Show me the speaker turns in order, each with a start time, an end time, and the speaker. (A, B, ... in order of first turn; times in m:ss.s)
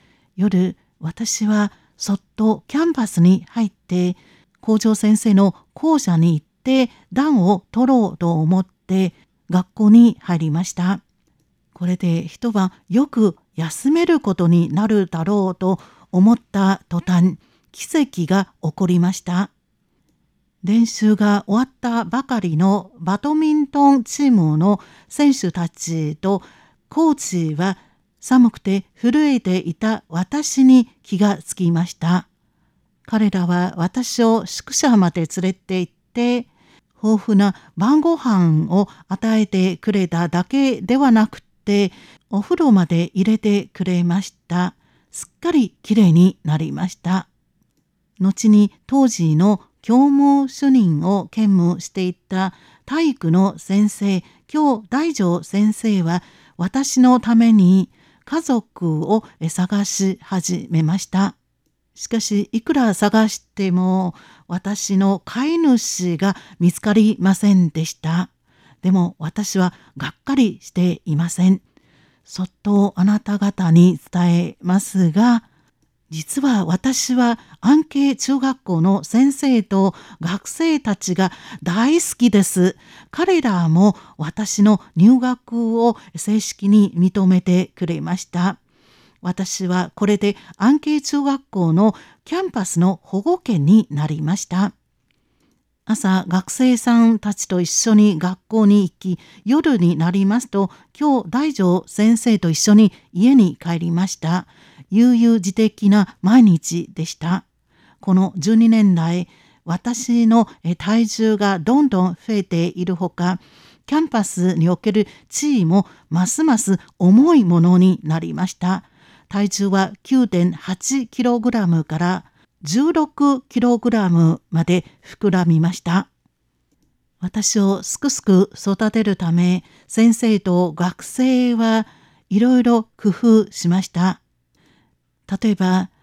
0:00.4-0:11.0 A
0:11.8-0:19.5 A
0:20.6-0:32.3 A
0:33.0-0:47.3 A
0:48.2-1:01.4 A
1:02.0-1:08.3 A
1:08.8-1:11.6 A
1:12.2-1:15.5 A
1:16.1-1:28.6 A
1:29.2-1:34.7 A
1:35.9-1:47.4 A
1:48.0-2:06.1 A
2:07.2-2:14.2 A
2:15.3-2:15.9 A